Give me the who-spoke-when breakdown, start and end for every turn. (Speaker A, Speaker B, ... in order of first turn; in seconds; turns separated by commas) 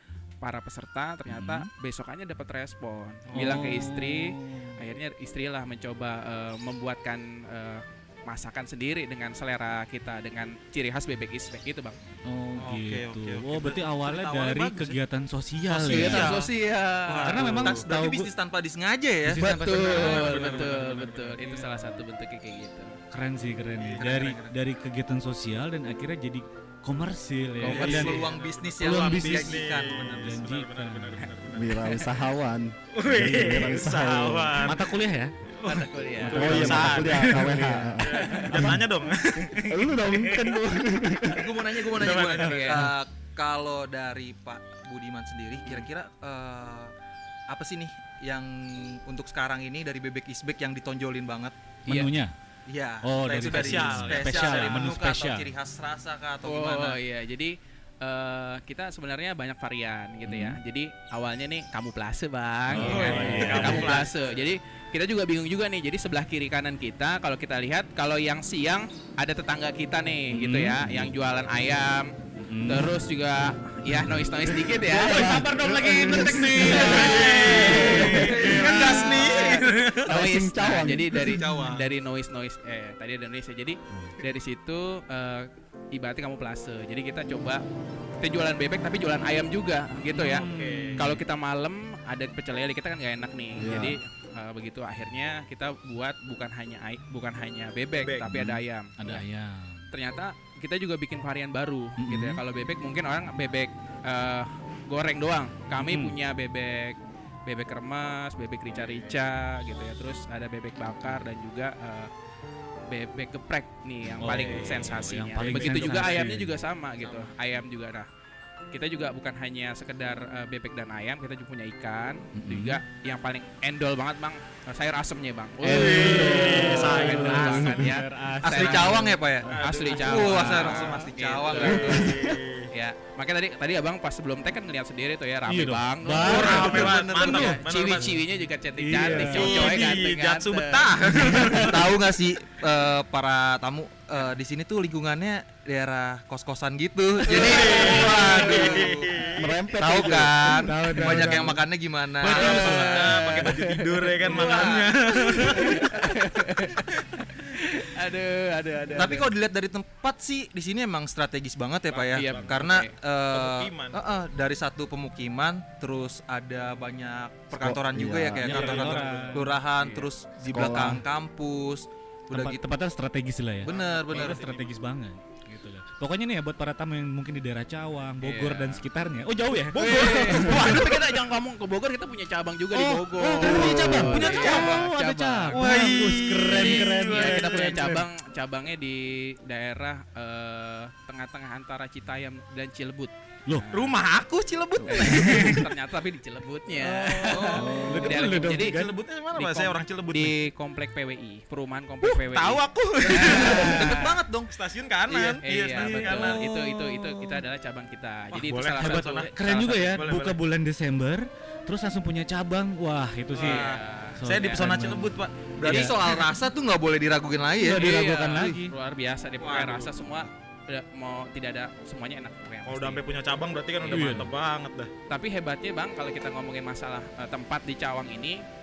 Speaker A: 0.4-12.0, Speaker B: 1.3-1.7, Speaker B: 3.3-4.8, Speaker B: 12.3-16.4, Speaker C: 12.6-15.0, Speaker C: 15.7-16.5, Speaker D: 15.7-16.3, Speaker A: 15.9-17.4, Speaker C: 17.1-17.8, Speaker B: 17.2-18.3, Speaker D: 17.3-19.5, Speaker B: 19.2-20.8, Speaker A: 19.4-23.0, Speaker C: 19.7-21.6, Speaker B: 23.1-28.2, Speaker C: 23.8-24.2, Speaker D: 23.9-24.5, Speaker A: 27.6-28.2, Speaker C: 27.7-31.9, Speaker D: 27.7-30.4, Speaker B: 28.8-31.2, Speaker E: 31.5-34.7, Speaker C: 33.0-34.9, Speaker B: 34.6-35.3, Speaker C: 35.6-39.6, Speaker A: 35.6-38.6, Speaker E: 36.2-38.8, Speaker B: 36.3-37.8, Speaker B: 39.5-40.6, Speaker E: 39.7-42.0, Speaker D: 41.3-46.9, Speaker C: 41.9-42.9, Speaker A: 42.4-42.9, Speaker D: 47.5-51.5, Speaker A: 51.9-52.1, Speaker B: 51.9-52.3, Speaker D: 52.7-57.0, Speaker B: 53.0-55.5, Speaker C: 53.3-55.0, Speaker A: 56.4-75.7, Speaker B: 60.2-60.6, Speaker B: 62.7-64.0, Speaker C: 62.7-64.4, Speaker B: 70.3-71.1, Speaker B: 72.4-73.0, Speaker E: 74.5-79.5, Speaker B: 74.8-78.1, Speaker C: 75.2-80.2, Speaker A: 76.2-87.6, Speaker D: 78.1-78.9, Speaker E: 80.0-81.4, Speaker D: 81.4-81.8, Speaker C: 81.4-81.8, Speaker A: 88.2-99.2, Speaker B: 90.1-91.2, Speaker C: 90.2-91.1, Speaker E: 93.6-94.0, Speaker C: 98.0-98.3, Speaker B: 98.2-99.9, Speaker A: 99.9-112.1, Speaker B: 102.0-102.4, Speaker B: 105.8-106.2, Speaker A: 112.9-118.1, Speaker B: 114.2-116.6, Speaker C: 114.4-114.9, Speaker C: 115.5-117.3, Speaker A: 118.7-141.0, Speaker B: 122.4-122.8, Speaker B: 125.6-130.8, Speaker C: 125.7-127.9, Speaker D: 128.4-131.9, Speaker C: 129.4-132.7, Speaker E: 131.9-132.3, Speaker B: 135.5-137.6, Speaker C: 136.2-138.2, Speaker D: 136.2-137.6, Speaker B: 138.8-140.0, Speaker C: 138.9-142.0, Speaker B: 141.2-141.7, Speaker D: 141.2-149.1, Speaker C: 147.2-149.5, Speaker A: 147.3-148.9, Speaker E: 149.4-151.4, Speaker D: 149.8-153.2, Speaker B: 150.5-151.6, Speaker C: 152.2-155.9, Speaker A: 152.2-154.5, Speaker D: 154.2-154.9, Speaker A: 155.3-159.3, Speaker D: 158.9-172.6, Speaker C: 161.9-162.7, Speaker A: 162.1-162.9, Speaker C: 163.3-164.0, Speaker E: 167.5-168.6, Speaker C: 168.4-170.0, Speaker B: 168.5-169.5, Speaker E: 170.5-171.0, Speaker B: 172.3-180.8, Speaker D: 173.7-174.4, Speaker C: 173.7-174.7, Speaker A: 178.2-178.8, Speaker C: 179.7-181.2, Speaker A: 179.7-193.9, Speaker B: 182.8-188.1, Speaker C: 183.4-184.9, Speaker C: 185.5-187.8, Speaker C: 193.7-195.6, Speaker E: 194.8-195.1, Speaker A: 194.9-198.8, Speaker B: 195.1-195.6, Speaker C: 196.8-200.3, Speaker D: 197.3-198.0, Speaker B: 197.5-198.9, Speaker A: 199.3-204.1, Speaker C: 202.0-206.4, Speaker D: 203.1-204.5, Speaker D: 205.1-205.9, Speaker A: 205.4-209.3, Speaker B: 205.9-207.4, Speaker C: 208.3-210.4, Speaker B: 208.8-213.6, Speaker A: 213.3-214.7, Speaker D: 213.4-213.8, Speaker B: 214.2-216.0, Speaker C: 214.2-216.2, Speaker D: 215.6-217.9, Speaker B: 217.6-218.7, Speaker A: 217.7-223.0, Speaker D: 219.4-220.2, Speaker C: 222.7-224.9, Speaker B: 223.9-224.3, Speaker A: 225.1-228.4